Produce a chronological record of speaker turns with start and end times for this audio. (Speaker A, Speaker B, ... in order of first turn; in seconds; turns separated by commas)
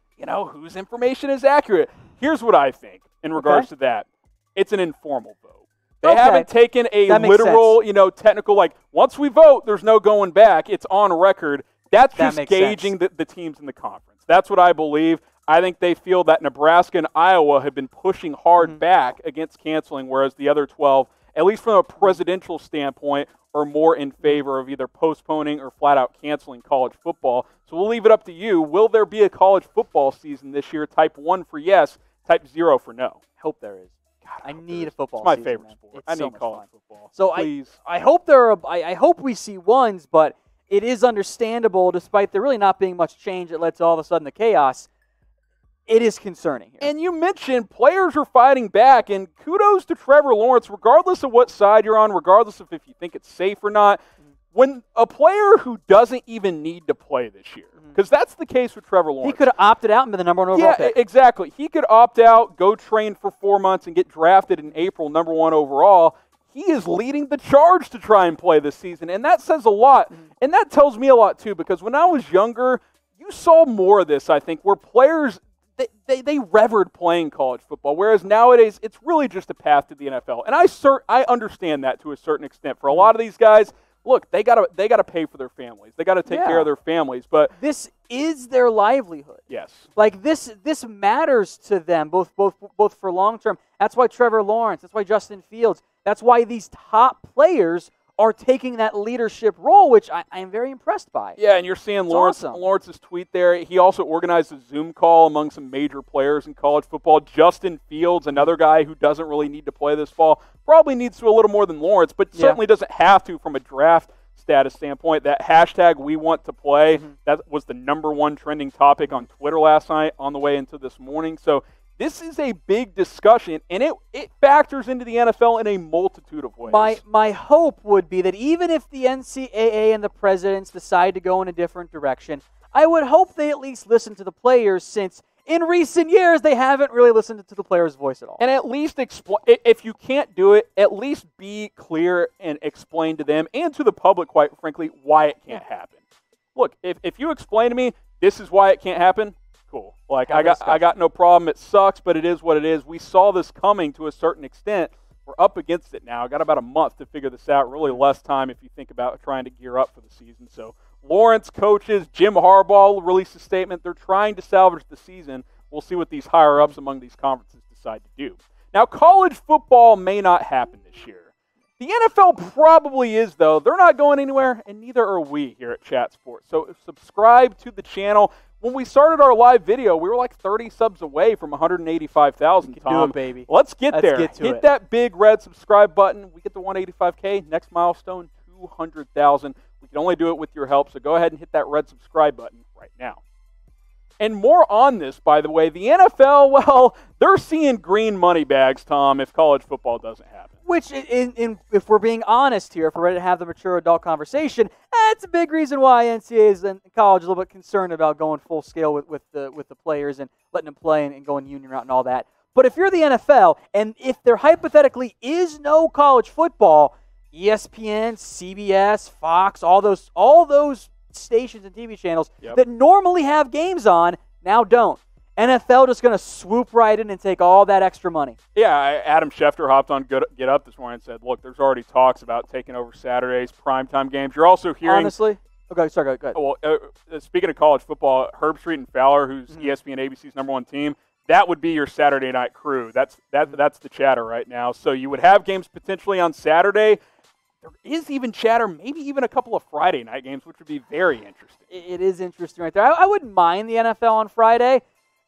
Speaker A: 0.2-33.2, Speaker B: 3.4-3.7, Speaker B: 6.0-6.5, Speaker B: 7.0-7.8, Speaker B: 12.2-12.9, Speaker B: 33.4-44.9, Speaker A: 34.2-37.7, Speaker B: 45.9-46.9, Speaker A: 46.8-54.0, Speaker A: 54.5-59.4, Speaker B: 59.2-60.9, Speaker A: 60.5-87.5, Speaker B: 86.3-86.7, Speaker B: 87.5-89.4, Speaker A: 89.5-89.9, Speaker B: 90.0-101.4, Speaker A: 101.4-127.0, Speaker B: 102.1-102.6, Speaker B: 126.7-138.4, Speaker A: 138.4-146.0, Speaker A: 146.5-171.3, Speaker B: 150.2-150.8, Speaker A: 171.8-193.2, Speaker B: 182.6-184.6, Speaker A: 194.2-200.5, Speaker B: 200.6-228.4, Speaker A: 228.5-235.1, Speaker B: 234.8-236.4, Speaker A: 236.3-247.0, Speaker A: 247.6-251.7, Speaker B: 251.7-254.8